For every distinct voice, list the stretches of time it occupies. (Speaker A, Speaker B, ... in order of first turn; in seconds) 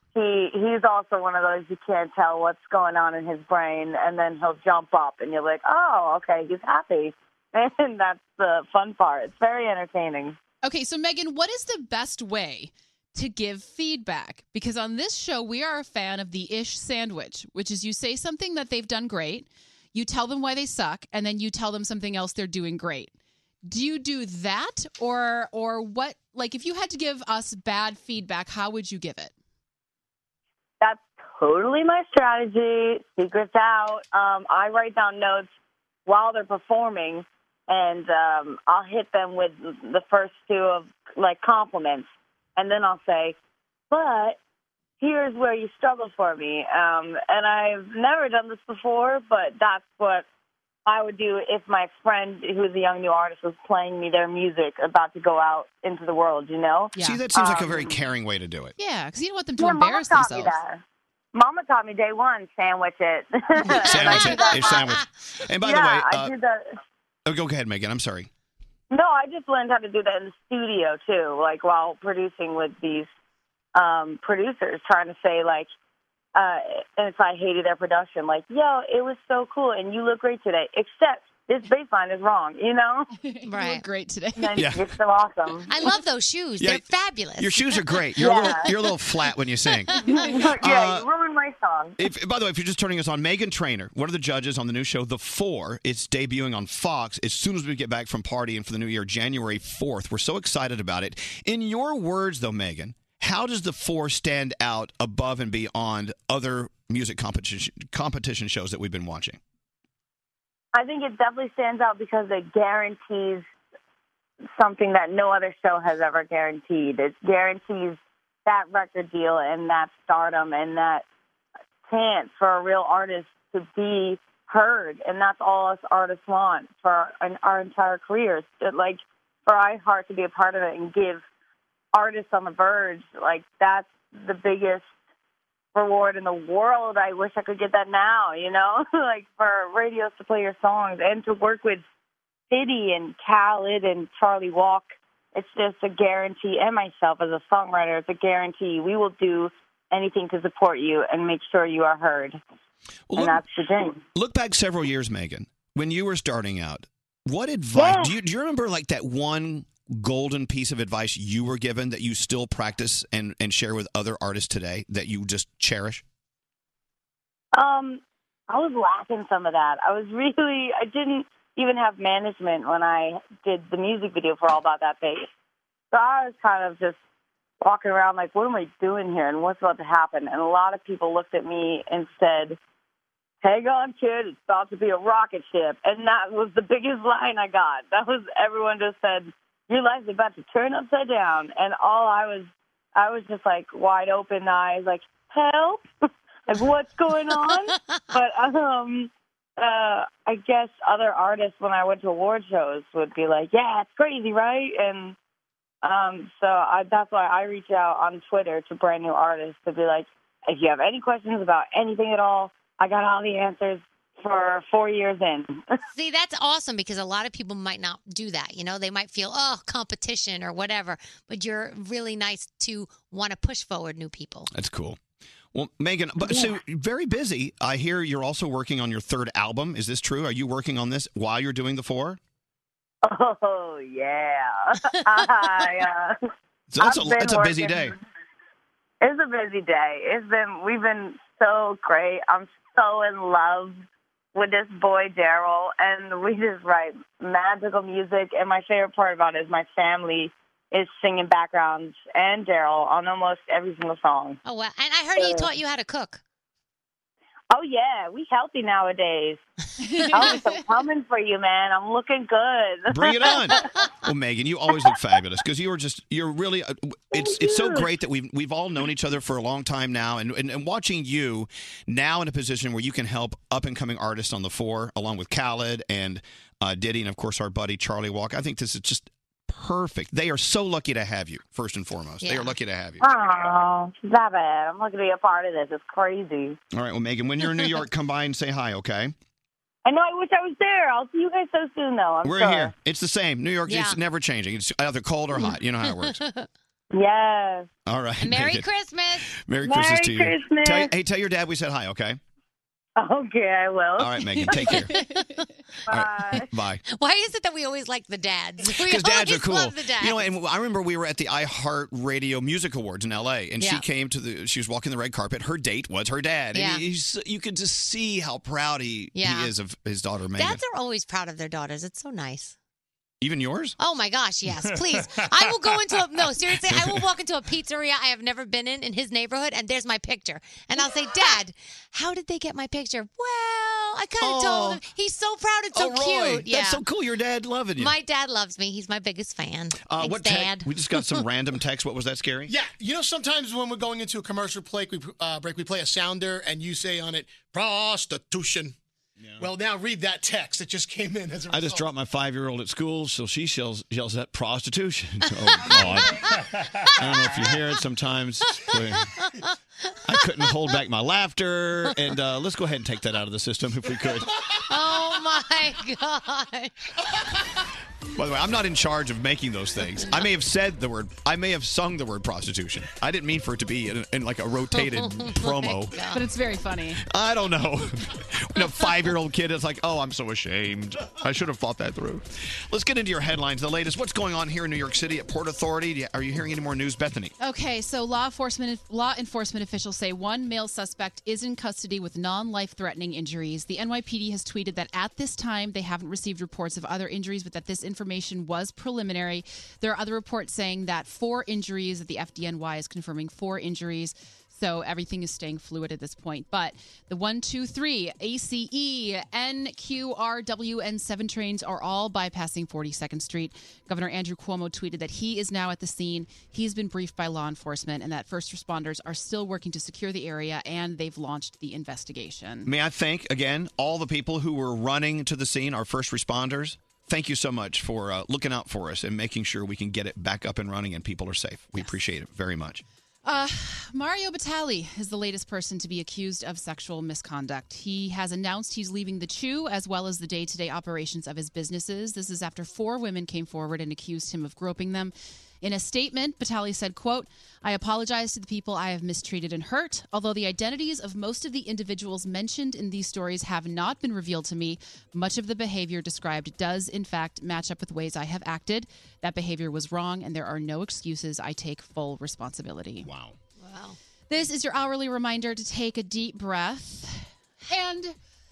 Speaker A: 0.1-10.3, 30.8-35.5, 36.0-43.4, 43.9-44.4, 45.0-50.2, 50.9-58.0, 59.6-60.8, 61.3-64.8, 65.6-66.7, 68.9-73.1, 73.7-75.7, 76.3-83.1, 84.4-85.7, 88.2-88.7, 90.0-92.0, 110.7-113.4, 114.6-121.0, 121.9-131.2, 131.9-134.9, 135.7-141.8, 142.5-152.4, 153.1-154.0, 157.7-158.1, 167.5-175.3, 175.9-177.0, 177.6-182.6, 183.4-195.8, 196.5-205.2, 205.8-215.6, 233.0-236.2, 236.8-237.9, 239.0-243.8, 244.3-254.4, 255.2-255.4, 257.5-259.4, 260.1-263.6, 267.1-267.9, 283.0-286.6, 289.8-292.7, 296.9-297.7, 299.6-300.9, 303.0-304.5, 305.9-306.4
Speaker B: 10.6-23.1, 23.6-29.3, 57.0-57.2, 58.8-60.6, 83.2-84.6, 259.8-260.7, 304.5-305.4, 376.1-377.0, 387.4-422.7, 433.2-463.1, 464.3-468.1
Speaker C: 57.0-58.7, 63.8-66.3, 67.2-68.3, 84.6-84.8, 86.6-86.8, 87.4-90.0, 90.6-91.0, 92.0-109.4, 153.1-153.4, 154.1-166.0, 224.5-225.0, 225.5-232.2, 236.7-237.9, 262.9-283.1, 286.7-289.1, 292.2-296.2, 297.9-298.7, 299.3-302.2, 304.0-304.9, 305.9-306.8, 308.7-320.6, 323.2-323.8, 326.7-326.9, 334.2-334.8, 335.7-337.9, 339.8-342.5, 351.5-356.2, 356.9-359.1, 360.1-364.3, 368.1-376.0, 377.0-387.3, 422.6-432.8
Speaker D: 63.8-65.1, 83.5-83.8, 85.7-88.4, 89.9-90.3, 197.6-198.0, 215.9-224.5, 254.4-256.2, 282.2-282.5, 293.7-294.0, 295.4-296.5, 298.2-299.3, 304.9-305.4, 306.9-310.3, 316.5-316.8, 319.1-319.5, 320.4-322.5, 323.8-336.8, 337.8-341.2, 364.6-366.7, 374.7-376.2, 463.6-464.0
Speaker E: 342.5-348.7, 349.4-351.9